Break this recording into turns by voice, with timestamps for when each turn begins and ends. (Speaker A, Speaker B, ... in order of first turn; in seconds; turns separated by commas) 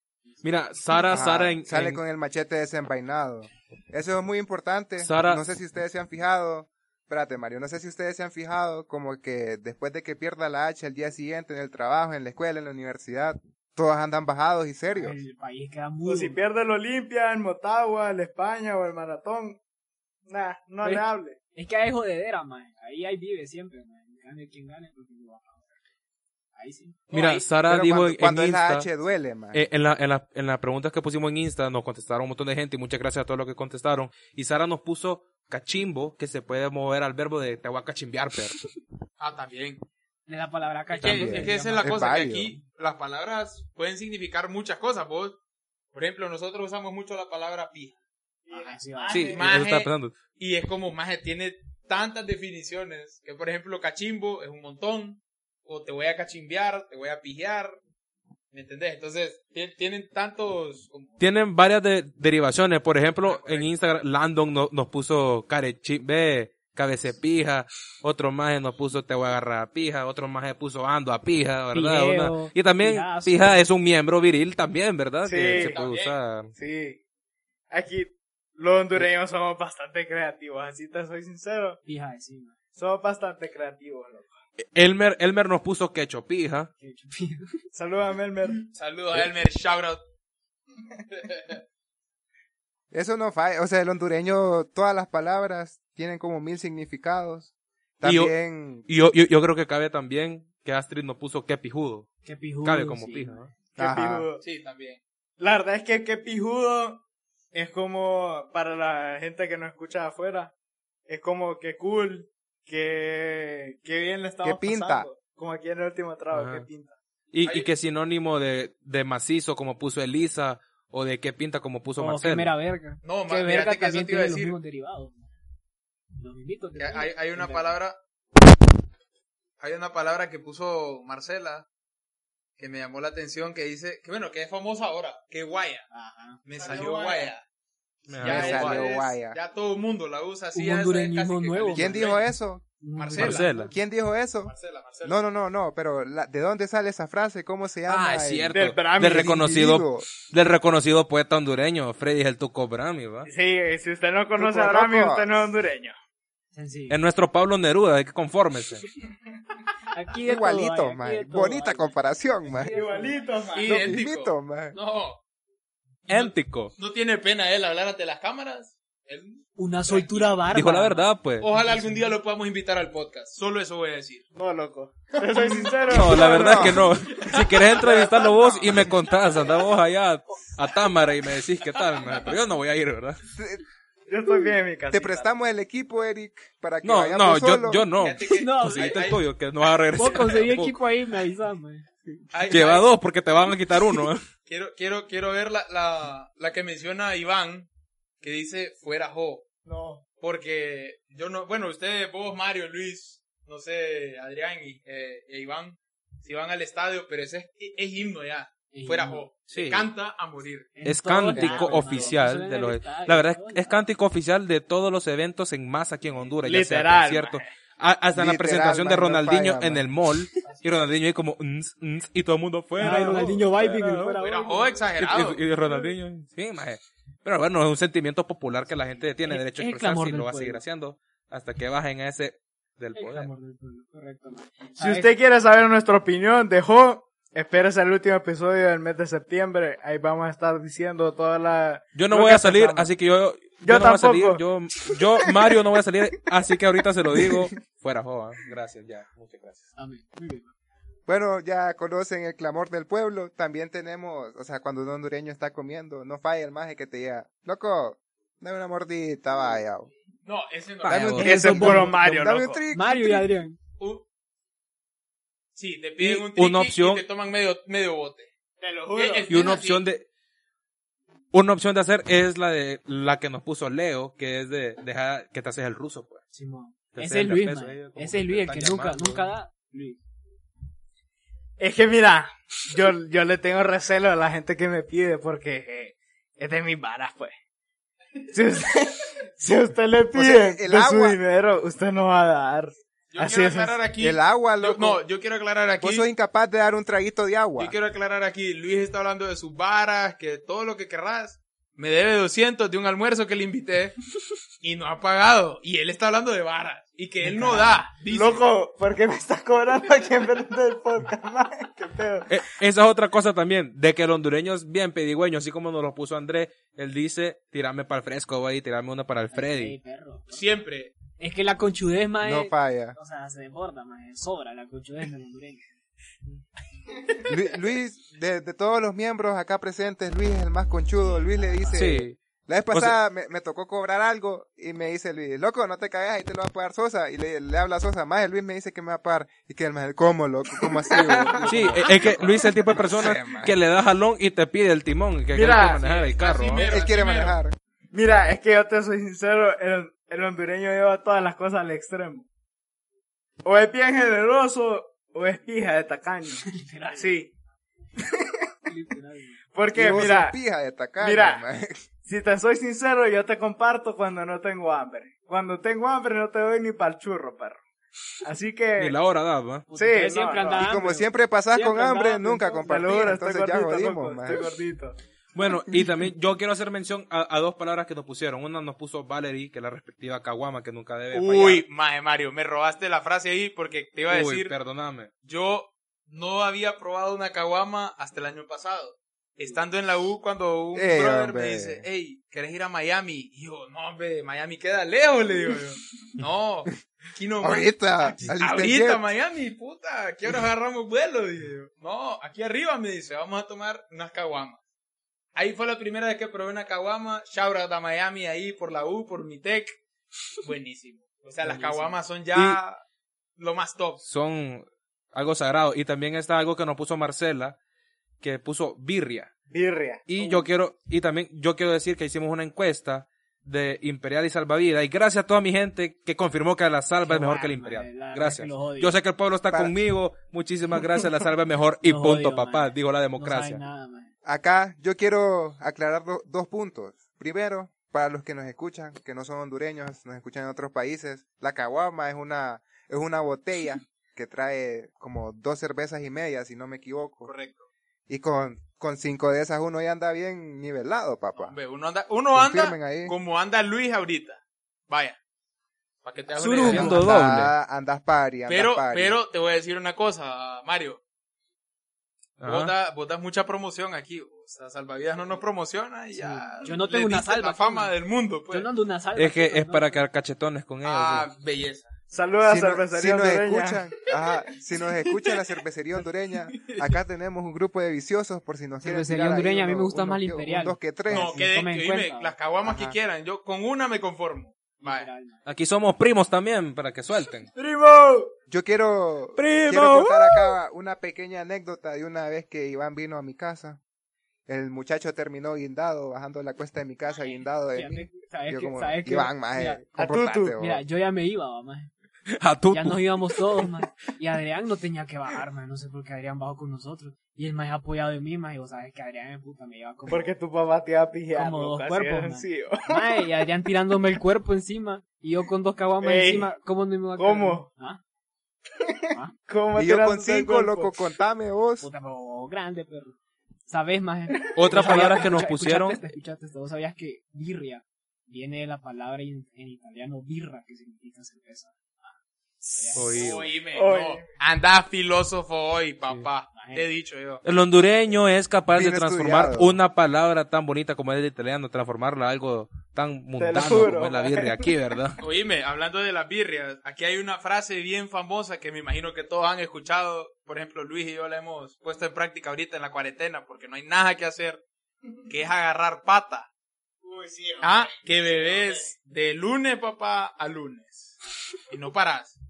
Speaker A: 0.3-1.0, Speaker B: 0.4-2.0, Speaker C: 1.1-15.2, Speaker B: 5.0-5.4, Speaker A: 14.9-16.4, Speaker D: 16.1-19.6, Speaker D: 20.3-21.4, Speaker A: 20.8-25.7, Speaker A: 26.6-27.0, Speaker E: 27.1-27.5, Speaker B: 27.1-28.9, Speaker C: 27.7-29.6, Speaker B: 29.5-38.6, Speaker E: 39.2-39.8, Speaker A: 40.3-42.0, Speaker E: 41.0-45.4, Speaker B: 41.0-41.3, Speaker C: 41.1-42.6, Speaker E: 45.9-48.0, Speaker D: 48.5-49.5, Speaker A: 48.5-49.4, Speaker B: 49.1-50.2, Speaker E: 49.2-57.8, Speaker E: 58.5-61.2, Speaker B: 61.2-76.5, Speaker E: 63.2-63.7, Speaker A: 71.7-73.6, Speaker D: 75.2-75.8, Speaker E: 75.5-76.2, Speaker D: 76.6-77.0, Speaker D: 77.7-81.8, Speaker A: 81.9-82.5, Speaker D: 82.8-84.4, Speaker B: 84.6-86.7, Speaker A: 86.8-87.6, Speaker D: 87.7-88.7, Speaker E: 88.7-90.0, Speaker E: 91.1-91.6, Speaker C: 92.9-98.9, Speaker B: 98.0-98.3, Speaker B: 98.9-102.1, Speaker A: 102.2-103.5, Speaker B: 102.6-103.6, Speaker D: 103.8-104.4, Speaker C: 103.8-104.3, Speaker E: 104.4-105.0, Speaker D: 105.4-107.0, Speaker D: 107.5-110.5, Speaker D: 111.1-117.0, Speaker C: 114.4-115.1, Speaker B: 116.3-116.7, Speaker B: 117.3-122.5, Speaker E: 117.4-117.7, Speaker A: 122.0-125.2, Speaker E: 123.0-124.6, Speaker A: 126.2-127.8, Speaker E: 126.8-128.0, Speaker E: 129.6-131.7, Speaker E: 132.6-135.9, Speaker A: 135.9-136.4, Speaker E: 136.4-137.4, Speaker D: 136.6-137.3, Speaker B: 138.1-138.8, Speaker E: 138.2-142.3, Speaker C: 138.2-139.4, Speaker A: 140.5-142.2, Speaker C: 141.7-142.6, Speaker A: 142.8-143.7, Speaker E: 143.0-143.7, Speaker B: 143.2-143.7, Speaker C: 143.6-150.1, Speaker E: 144.4-145.2, Speaker B: 147.9-153.3, Speaker D: 148.5-149.5, Speaker D: 153.2-156.0, Speaker C: 154.3-155.5, Speaker A: 156.5-157.0, Speaker B: 156.9-158.8, Speaker A: 159.9-161.9, Speaker C: 160.3-162.7, Speaker A: 162.5-163.4, Speaker D: 162.7-163.9, Speaker E: 163.5-165.2, Speaker C: 163.7-164.8, Speaker B: 166.1-166.7, Speaker E: 166.1-170.3, Speaker A: 169.6-172.2, Speaker B: 170.5-171.5, Speaker E: 171.4-174.3, Speaker D: 174.3-178.8, Speaker B: 175.9-183.2, Speaker C: 176.1-176.8, Speaker E: 177.1-178.9, Speaker C: 183.3-183.6, Speaker D: 184.1-185.3, Speaker C: 184.9-187.9, Speaker B: 186.8-190.8, Speaker E: 188.0-189.3, Speaker A: 188.2-189.2, Speaker A: 189.9-191.9, Speaker E: 192.3-192.9, Speaker B: 192.5-194.3, Speaker E: 194.5-197.7, Speaker E: 198.2-199.5, Speaker D: 199.7-200.0, Speaker E: 200.2-210.7, Speaker A: 208.7-209.3, Speaker B: 209.5-209.9, Speaker A: 210.8-213.8, Speaker B: 210.8-224.2, Speaker C: 211.4-211.7, Speaker D: 216.4-217.5, Speaker C: 218.1-219.9, Speaker A: 222.8-224.8, Speaker D: 222.8-223.1, Speaker E: 224.2-225.4, Speaker B: 225.0-233.3, Speaker A: 229.2-230.6, Speaker A: 232.9-235.1, Speaker D: 234.8-242.9, Speaker B: 241.9-249.7, Speaker D: 243.6-245.7, Speaker D: 247.1-247.4, Speaker A: 249.8-250.5, Speaker C: 251.1-259.9, Speaker E: 260.2-261.2, Speaker B: 260.8-261.8, Speaker C: 260.9-263.3, Speaker A: 261.2-261.9, Speaker D: 261.2-262.6, Speaker A: 262.7-263.6, Speaker E: 263.8-264.0, Speaker E: 265.6-268.3, Speaker B: 266.0-267.0, Speaker D: 268.6-269.4, Speaker E: 268.9-269.9, Speaker B: 269.3-270.1, Speaker B: 271.3-276.2, Speaker A: 276.3-280.0, Speaker B: 276.9-279.3, Speaker D: 281.6-287.4, Speaker D: 288.3-293.8, Speaker C: 290.1-291.2, Speaker E: 293.1-296.1, Speaker C: 294.0-295.0, Speaker C: 295.8-297.8, Speaker E: 297.6-304.0, Speaker E: 304.6-308.4, Speaker A: 307.2-307.9, Speaker D: 308.1-312.3, Speaker B: 312.3-319.8, Speaker A: 319.3-320.5, Speaker E: 320.3-320.9, Speaker A: 321.2-325.7, Speaker C: 322.2-323.0, Speaker C: 327.2-343.6, Speaker B: 331.8-332.2, Speaker D: 340.6-342.3, Speaker B: 341.5-346.7, Speaker D: 345.3-345.9, Speaker E: 345.4-347.4, Speaker C: 346.5-347.6, Speaker D: 347.9-352.3, Speaker D: 353.4-357.3, Speaker A: 356.5-357.1, Speaker D: 358.0-358.3, Speaker A: 358.7-359.4, Speaker D: 359.5-360.4, Speaker C: 359.7-361.8, Speaker D: 361.0-361.4, Speaker D: 362.0-367.6, Speaker D: 368.2-369.0, Speaker B: 368.8-369.7, Speaker A: 369.7-372.7, Speaker D: 369.7-370.7, Speaker C: 370.6-374.5, Speaker D: 372.6-375.0, Speaker B: 375.3-381.6, Speaker E: 381.1-384.5, Speaker B: 384.1-385.1, Speaker E: 385.2-404.6, Speaker C: 390.8-391.9, Speaker C: 397.4-399.1, Speaker E: 405.4-409.8, Speaker E: 410.4-412.8, Speaker A: 411.5-411.9, Speaker B: 412.3-412.6, Speaker E: 413.4-414.0, Speaker B: 414.0-417.6, Speaker B: 418.2-419.3, Speaker D: 419.5-420.5, Speaker B: 420.1-433.6, Speaker A: 427.0-428.9, Speaker A: 431.8-434.1, Speaker C: 434.2-447.3, Speaker E: 447.2-447.7, Speaker C: 448.1-451.6, Speaker E: 451.4-455.2, Speaker C: 452.3-453.1, Speaker E: 456.0-457.0, Speaker B: 456.3-457.5, Speaker C: 456.6-459.2, Speaker A: 456.6-457.0, Speaker E: 458.5-461.0, Speaker B: 462.4-462.7, Speaker E: 462.4-468.7, Speaker A: 466.1-467.9, Speaker A: 468.5-470.0, Speaker B: 469.2-471.3, Speaker E: 470.8-471.9, Speaker D: 472.1-473.8, Speaker C: 472.4-481.4, Speaker E: 475.1-475.3, Speaker E: 476.5-476.9, Speaker A: 478.8-482.4, Speaker E: 481.1-485.1, Speaker C: 482.6-483.0, Speaker A: 484.8-485.4, Speaker B: 485.5-487.5, Speaker D: 487.5-488.3, Speaker C: 488.5-493.8, Speaker B: 489.4-490.5, Speaker C: 494.5-500.8, Speaker A: 497.7-499.9, Speaker D: 500.0-500.6, Speaker A: 500.6-501.9, Speaker B: 502.3-503.7, Speaker A: 502.7-510.3, Speaker D: 510.1-513.2, Speaker A: 511.3-518.0, Speaker D: 516.0-516.5, Speaker D: 517.2-517.7, Speaker D: 518.8-520.9, Speaker C: 519.8-521.9, Speaker A: 521.8-532.1, Speaker B: 524.5-526.0, Speaker D: 524.7-525.3, Speaker D: 532.6-534.2, Speaker A: 532.7-533.5, Speaker B: 533.0-533.5, Speaker E: 533.1-537.4, Speaker A: 536.5-536.9, Speaker B: 537.4-545.2, Speaker C: 538.7-539.8, Speaker D: 543.4-544.7, Speaker E: 545.2-554.6, Speaker E: 555.3-556.5, Speaker D: 557.0-558.9, Speaker E: 557.6-561.2, Speaker E: 561.7-562.4